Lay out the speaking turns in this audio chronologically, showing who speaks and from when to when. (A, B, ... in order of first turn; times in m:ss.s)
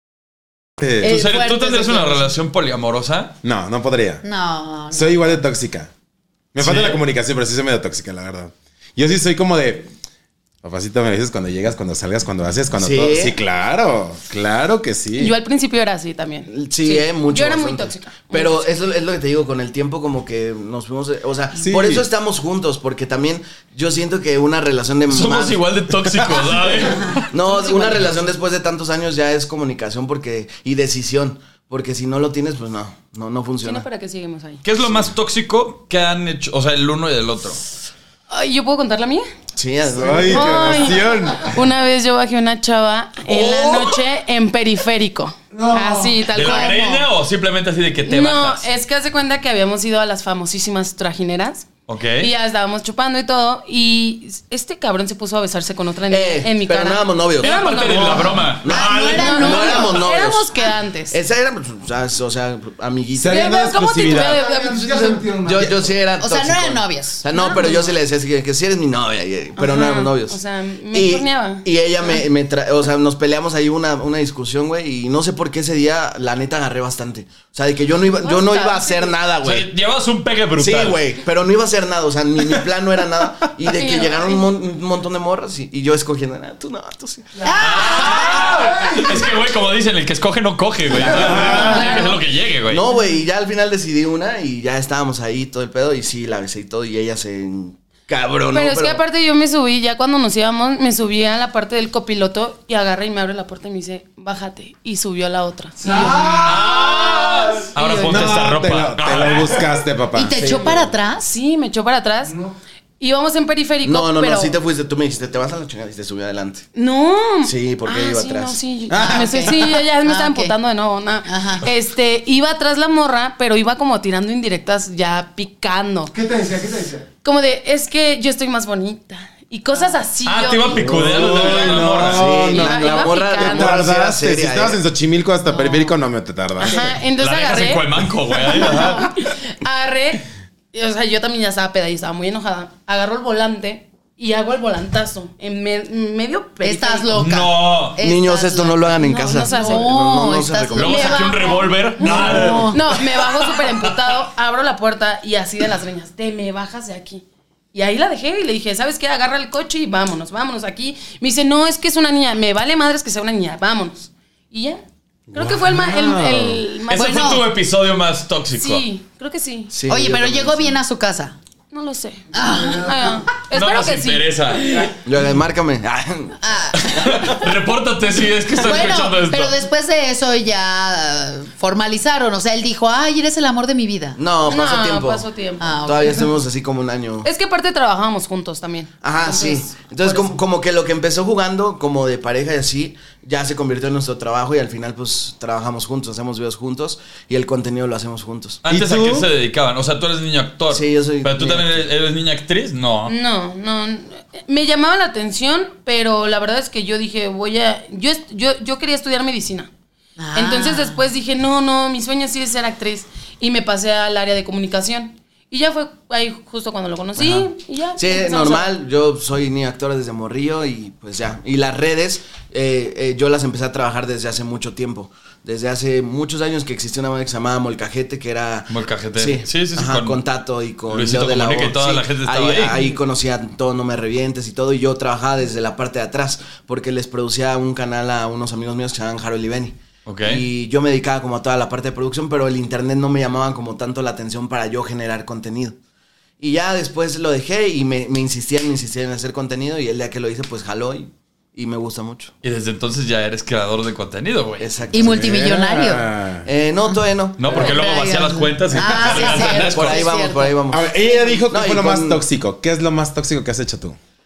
0:00.8-0:01.2 A
0:01.0-0:02.3 B
0:01.0-0:03.3 C
0:03.4-0:04.2 A
0:04.2-0:05.4 B
0:04.9-0:05.9 A
0:06.5-0:09.9 A
0:06.6-0:07.0 C
0:10.6-0:15.4 A
0:12.8-0:13.4 D
0:15.2-0:18.7 E
0:16.5-0:25.6 D
0:21.6-0:22.1 A
0:25.1-0:27.3 C
0:27.3-0:33.8 D
0:27.4-0:28.1 E
0:33.6-0:34.6 E
0:34.6-0:37.6 C
0:38.3-0:39.3 E
0:39.6-0:40.7 D
0:39.9-0:41.6 A
0:40.3-0:47.0 E
0:45.5-0:46.3 F
0:46.3-0:48.7 C
0:46.6-0:46.8 B
0:48.0-0:51.7 E
0:51.9-0:52.3 C
0:52.2-1:01.2 E
0:56.1-1:00.6 D
0:57.4-0:59.5 C
0:58.7-1:00.0 B
1:01.1-1:03.5 D
1:03.2-1:04.4 A
1:03.3-1:05.2 E
1:04.1-1:05.9 F
1:05.4-1:10.4 D
1:06.2-1:07.6 B
1:07.3-1:07.9 E
1:09.6-1:11.7 E
1:10.9-1:19.7 D
1:18.2-1:19.1 E
1:19.4-1:21.0 C
1:20.6-1:27.3 D
1:23.7-1:24.5 E
1:27.4-1:29.2 F
1:27.4-1:28.6 B
1:27.6-1:32.8 C
1:31.0-1:31.7 F
1:31.2-1:31.7 A
1:31.3-1:32.2 E
1:32.7-1:39.0 D
1:38.5-1:46.2 E
1:45.8-1:47.5 F
1:46.4-1:49.6 C
1:47.8-1:48.3 E
1:48.1-1:50.8 A
1:50.1-1:51.3 B
1:51.2-1:52.3 E
1:52.2-1:52.6 F
1:53.0-1:54.6 E
1:53.8-1:56.7 D
1:56.8-2:06.1 E
1:57.4-1:58.6 D
1:58.9-1:59.7 A
1:58.9-2:00.6 B
2:01.3-2:01.6 B
2:06.1-2:07.1 F
2:07.2-2:11.0 E
2:10.2-2:12.4 C
2:10.8-2:14.8 D
2:10.9-2:16.9 A
2:12.3-2:13.8 E
2:16.6-2:27.1 E
2:17.2-2:19.1 C
2:26.6-2:32.8 B
2:27.1-2:28.0 C
2:28.0-2:31.1 D
2:29.0-2:30.0 E
2:30.7-2:34.3 C
2:30.8-2:47.5 E
2:45.3-2:46.6 A
2:46.9-2:48.9 C
2:47.0-2:47.4 B
2:48.6-2:49.8 E
2:49.7-2:50.8 D
2:49.9-2:51.4 B
2:51.7-2:54.3 E
2:52.3-2:53.1 B
2:52.6-2:53.1 F
2:53.5-2:54.9 C
2:55.0-2:56.4 D
2:56.4-2:57.4 B
2:56.8-2:59.6 C
2:58.6-3:04.2 B
3:04.2-3:05.3 D
3:04.4-3:06.1 E
3:05.6-3:06.2 B
3:05.9-3:07.3 D
3:07.2-3:10.1 E
3:09.0-3:18.6 D
3:18.6-3:23.2 C
3:18.7-3:19.3 A
3:20.7-3:21.9 D
3:23.1-3:29.7 E
3:30.2-3:31.0 B
3:30.4-3:38.7 E
3:37.2-4:05.8 D
3:48.7-3:50.2 C
3:50.9-3:52.8 C
4:00.1-4:00.4 C
4:06.4-4:12.3 D
4:12.4-4:14.7 C
4:14.6-4:15.5 D
4:14.9-4:16.0 B
4:14.9-4:16.5 A
4:16.5-4:18.0 D
4:17.4-4:20.1 C
4:17.5-4:20.6 B
4:18.9-4:20.9 D
4:20.7-4:24.0 A
4:21.5-4:22.2 D